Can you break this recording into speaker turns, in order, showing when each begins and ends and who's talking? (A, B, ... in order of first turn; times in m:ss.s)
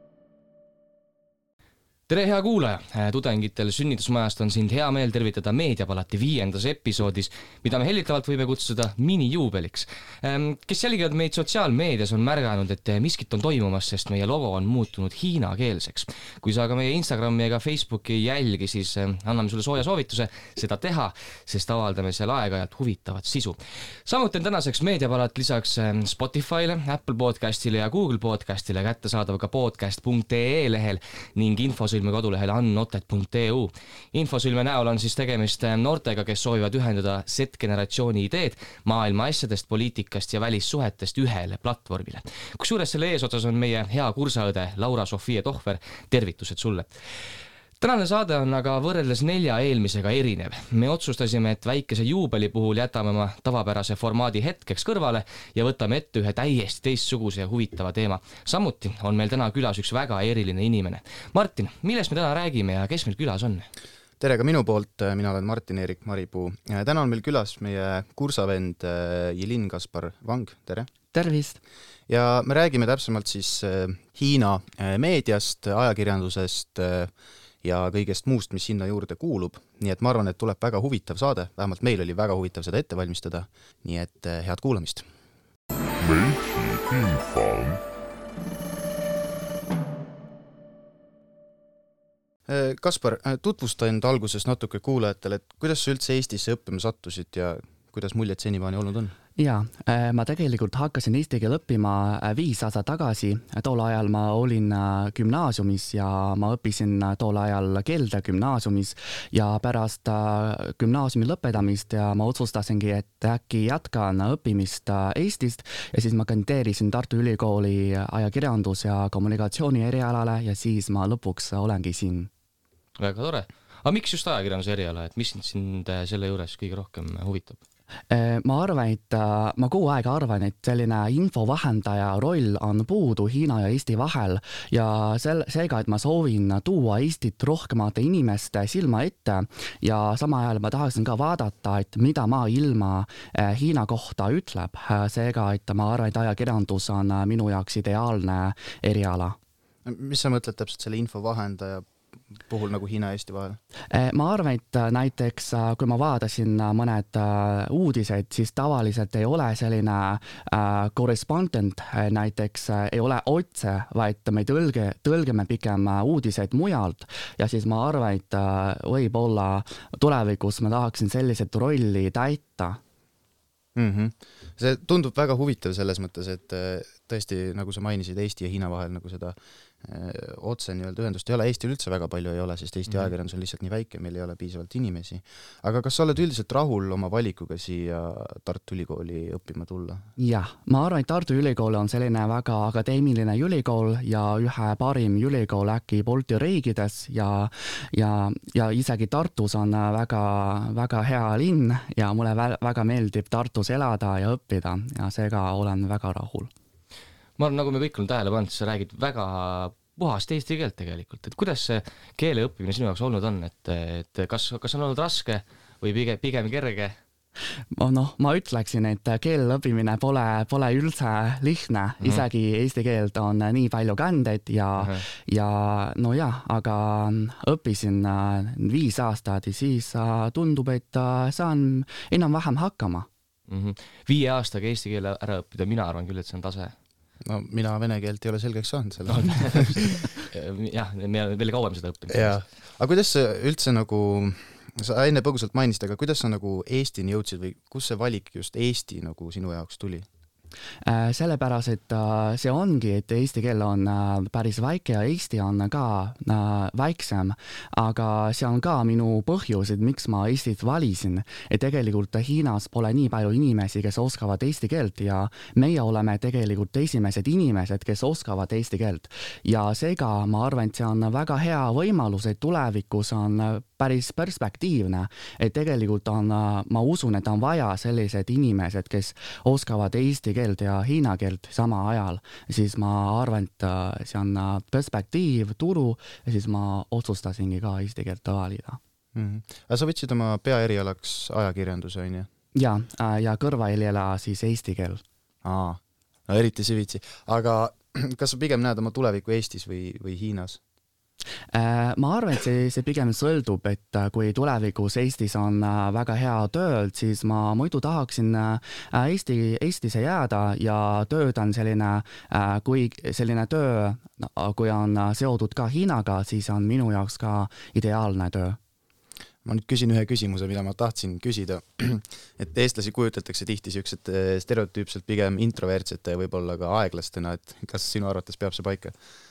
0:02.1-1:03.7 A
1:04.2-1:10.9 B
1:11.1-1:11.6 C
1:12.1-1:25.1 B
1:32.5-1:39.2 B
1:39.4-2:02.3 C
2:03.0-2:07.6 A
2:08.1-2:29.4 C
2:29.8-2:31.9 B
2:32.4-2:33.6 B
2:33.9-2:52.8 C
2:53.8-3:10.0 B
3:10.2-3:26.5 C
3:27.4-3:37.0 A
3:37.7-3:53.1 C
3:53.5-3:56.8 A
3:57.2-3:59.8 B
3:59.1-4:02.4 A
4:02.1-4:10.1 B
4:10.8-4:48.8 C
4:49.1-4:52.3 B
4:52.6-4:55.0 C
4:55.4-5:00.6 B
5:01.5-5:18.6 C
5:19.4-5:29.0 B